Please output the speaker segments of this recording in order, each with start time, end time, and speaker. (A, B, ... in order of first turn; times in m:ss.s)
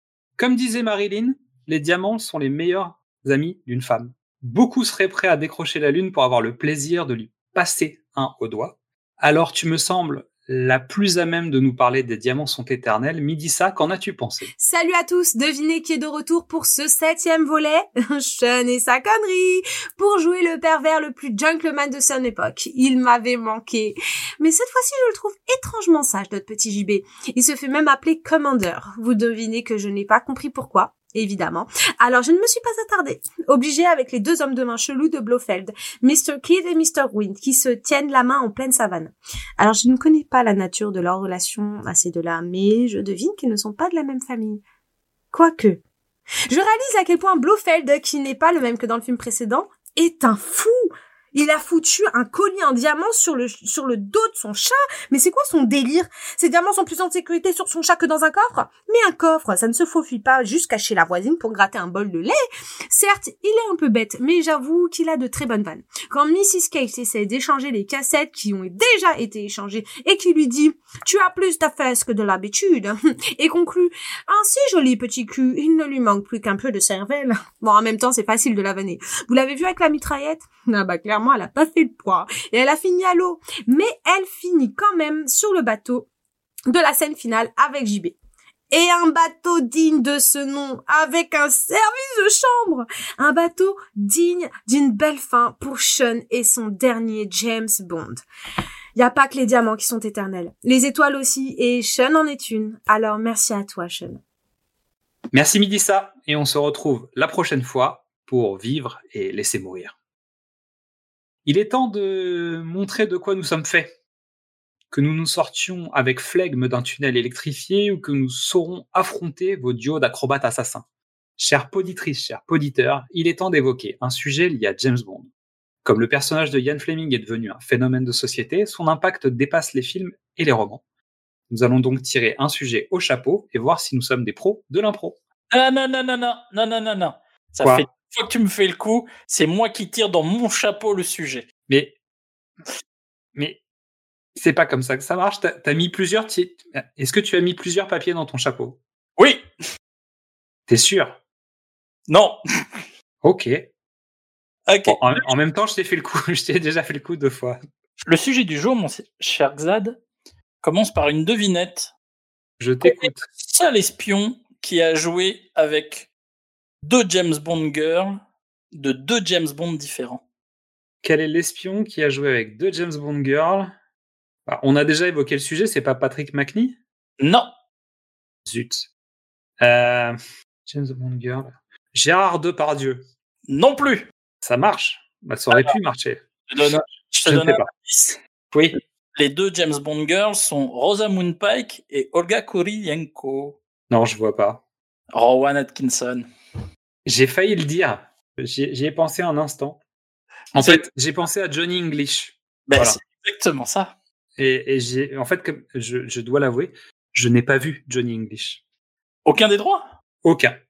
0:00.4-0:14.5 A
0:14.6-0:44.6 B
0:45.3-0:45.8 B
0:46.5-1:02.4 B
1:02.9-1:26.1 B
1:26.7-1:28.2 B
1:28.7-1:38.2 B
1:39.0-1:44.2 B
1:45.3-1:50.0 A
1:51.4-1:54.0 A
1:54.9-2:00.8 A
2:01.4-2:05.3 A
2:05.8-2:10.8 A
2:11.5-2:15.2 A
2:15.5-2:21.5 C
2:21.7-2:22.0 A
2:23.4-2:23.6 A
2:24.4-2:28.8 A
2:29.2-2:29.4 C
2:30.7-2:31.2 A
2:32.1-2:32.4 C
2:33.2-2:33.7 A
2:34.7-2:35.2 C
2:34.9-2:37.6 A
2:38.1-2:40.0 C
2:40.6-2:41.9 C
2:42.6-2:43.3 A
2:42.8-2:46.1 C
2:46.8-2:48.2 C
2:48.7-2:50.2 C
2:51.0-2:53.7 A
2:54.5-2:56.8 A
2:57.2-2:57.5 C
2:58.5-2:58.9 A
2:59.6-3:03.0 A
3:03.5-3:04.1 C
3:04.4-3:07.7 A
3:06.5-3:08.2 C
3:09.2-3:13.6 C
3:13.9-3:14.6 A
3:15.1-3:16.3 C
3:17.1-3:19.8 A
3:20.6-3:20.8 C
3:20.6-3:23.0 A
3:22.7-3:23.9 C
3:24.4-3:28.6 A
3:29.3-3:29.9 C
3:30.2-3:30.5 A